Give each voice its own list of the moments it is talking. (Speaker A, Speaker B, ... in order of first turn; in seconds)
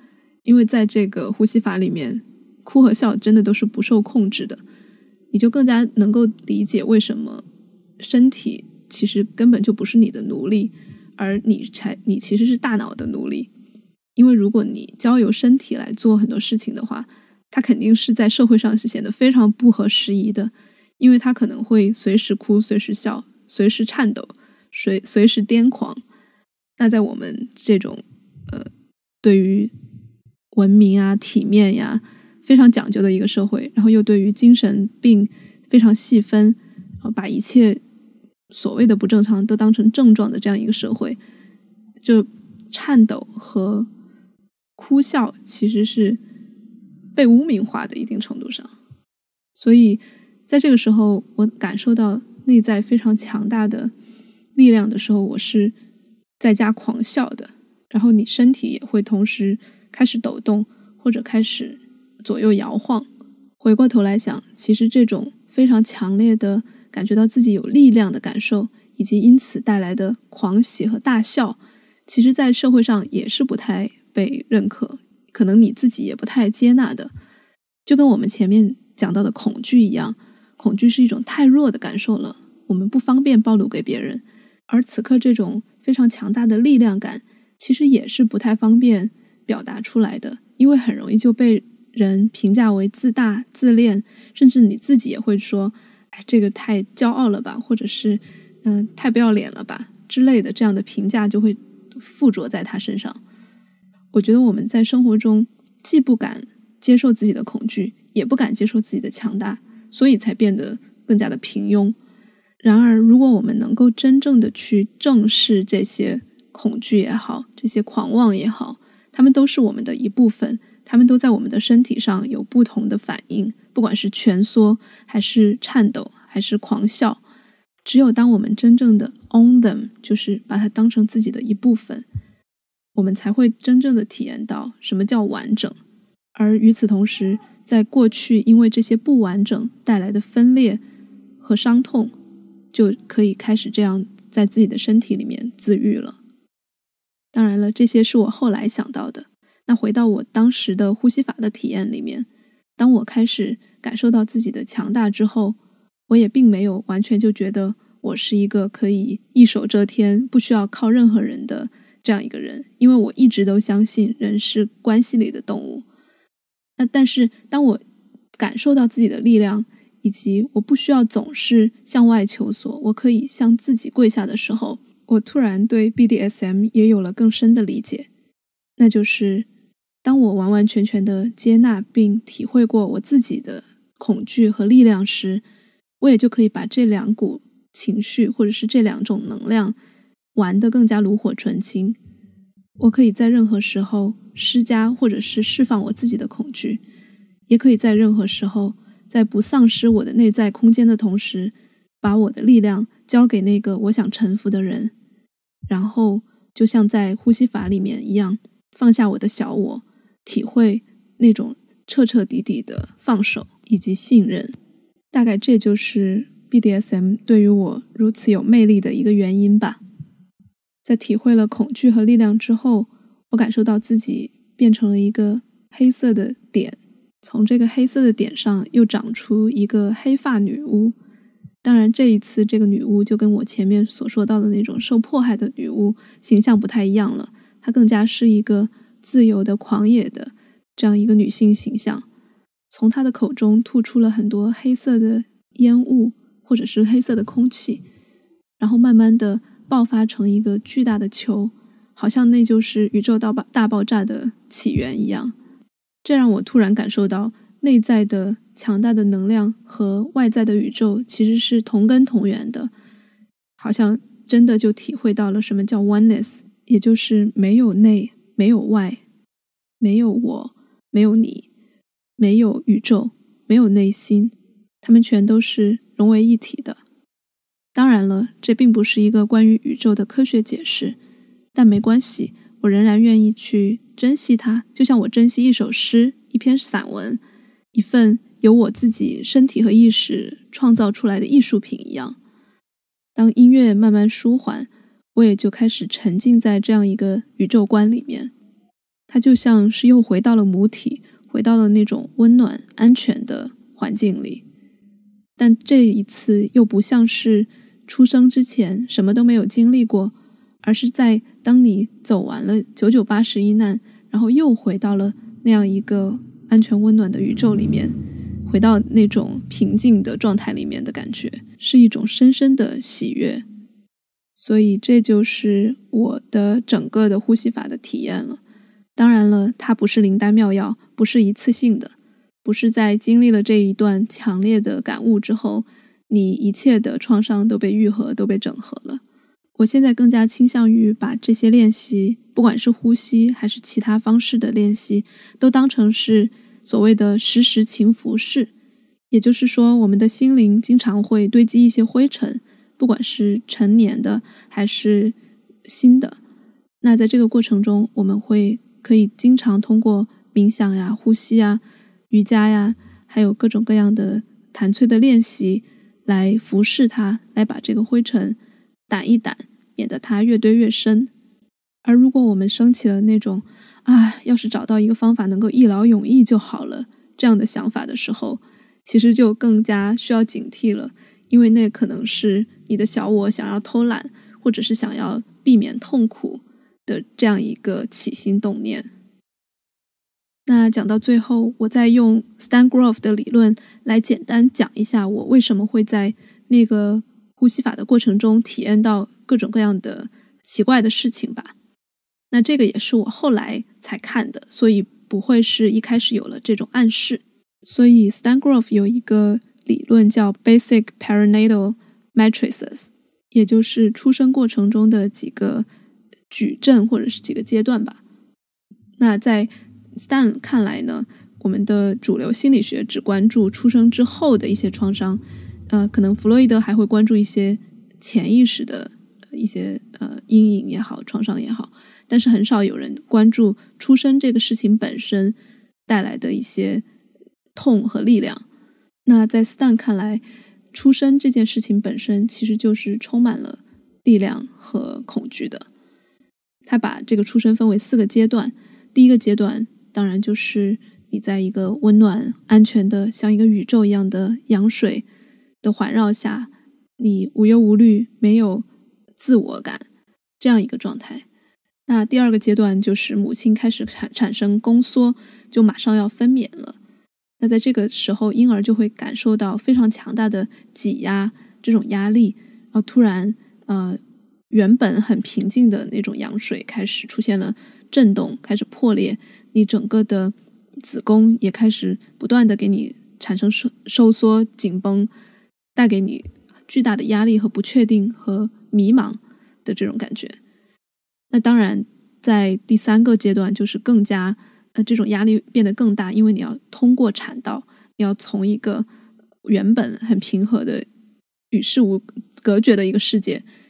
Speaker A: 0.4-4.6, 5.3-7.4, 8.0-13.5, 14.2-26.0, 26.8-28.7, 29.2-29.7, 30.5-37.8, 38.5-41.2, 42.0-43.9, 44.8-46.2, 47.1-48.7, 49.5-53.9, 54.5-55.7, 56.4-63.1, 63.6-77.1, 77.8-103.2, 104.1-112.0, 112.6-127.2, 127.8-132.1, 132.9-135.8, 136.3-140.8, 141.4-142.1, 142.7-146.2, 147.3-155.6, 156.1-165.8, 166.8-167.8, 168.3-178.1, 178.8-179.5, 180.0-185.4, 186.0-189.8, 190.3-192.0, 192.8-196.8, 197.5-204.9, 205.7-214.5, 215.1-219.8, 220.8-230.9, 231.6-242.0, 242.7-247.8, 248.6-255.3, 256.0-262.7, 263.6-269.0, 269.8-271.5, 272.2-276.8, 277.7-280.9, 281.5-287.2, 287.7-292.2, 293.1-298.3, 299.1-304.4, 305.4-317.9, 318.4-323.4, 324.4-328.4, 328.9-339.0, 339.6-348.5, 349.1-356.2, 356.8-371.1, 371.8-388.9, 390.4-401.5, 402.3-415.6, 416.3-418.0, 419.0-435.4, 435.9-436.8, 437.5-438.4, 439.1-440.2, 440.7-445.7, 446.6-455.0, 455.6-458.6, 459.2-459.9, 460.4-461.2, 461.9-466.8, 467.4-474.0, 474.5-485.1, 485.8-490.4, 491.3-498.9, 499.4-500.9, 501.5-503.4